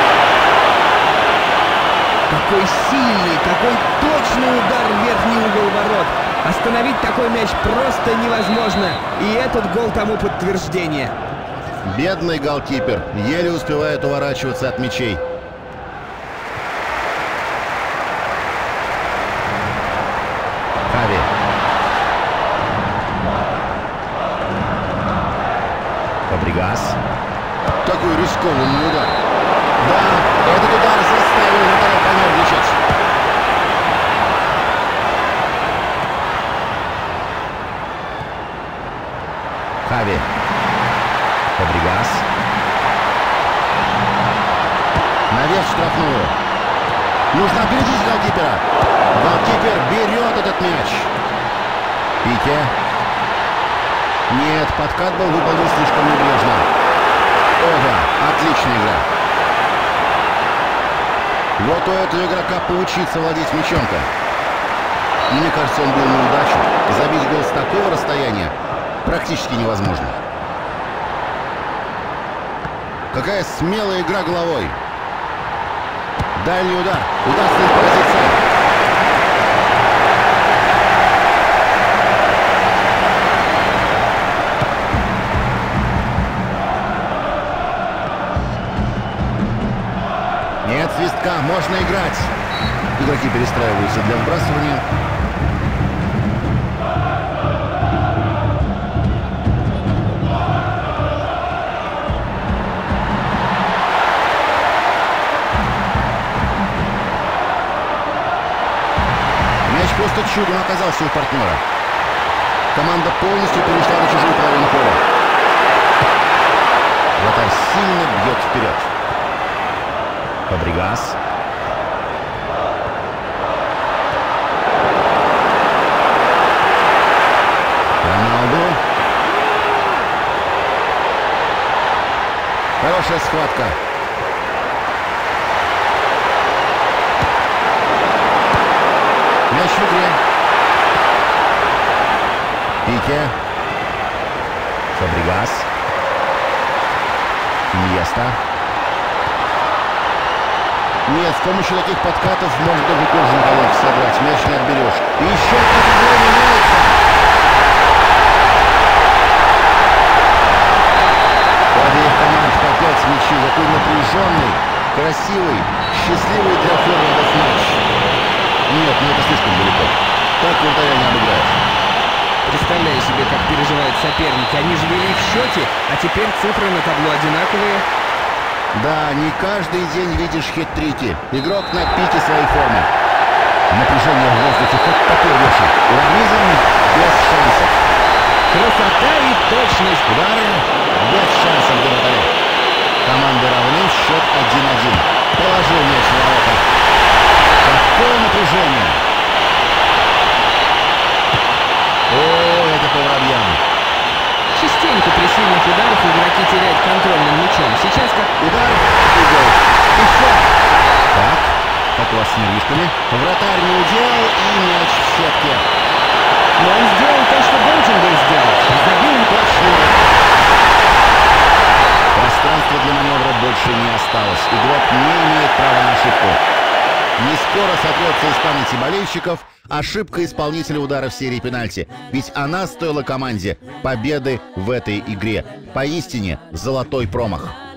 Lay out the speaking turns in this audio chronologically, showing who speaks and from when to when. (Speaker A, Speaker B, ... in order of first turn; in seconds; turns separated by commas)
Speaker A: 2.3-11.1, Speaker B: 11.8-15.2, Speaker B: 20.9-21.3, Speaker B: 26.3-27.0, Speaker B: 27.8-29.2, Speaker B: 29.8-32.8, Speaker B: 39.8-40.3, Speaker B: 41.6-42.3, Speaker B: 45.3-46.4, Speaker B: 47.3-51.1, Speaker B: 52.2-52.7, Speaker B: 54.3-56.7, Speaker B: 57.6-59.0, Speaker B: 61.6-64.1, Speaker B: 65.3-70.2, Speaker B: 73.1-74.8, Speaker B: 76.3-78.4, Speaker B: 90.6-92.3, Speaker B: 93.0-94.8, Speaker B: 109.6-111.6, Speaker B: 112.7-115.0, Speaker B: 117.2-118.9, Speaker B: 120.5-121.2, Speaker B: 128.0-128.8, Speaker B: 132.8-133.8, Speaker B: 139.5-140.2, Speaker B: 142.8-143.3, Speaker B: 144.9-145.7, Speaker B: 147.7-148.4, Speaker B: 151.1-157.0, Speaker B: 161.7-167.8, Speaker B: 168.7-171.6, Speaker A: 172.4-177.8, Speaker B: 178.7-182.9, Speaker B: 183.7-187.8, Speaker A: 188.5-190.1, Speaker B: 190.1-192.3, Speaker B: 193.0-196.6, Speaker B: 197.6-199.0, Speaker B: 202.1-203.6, Speaker A: 204.5-208.3, Speaker B: 208.4-210.5, Speaker B: 211.1-215.6, Speaker A: 216.6-219.3, Speaker B: 219.2-220.1, Speaker B: 222.1-226.4, Speaker B: 227.2-237.6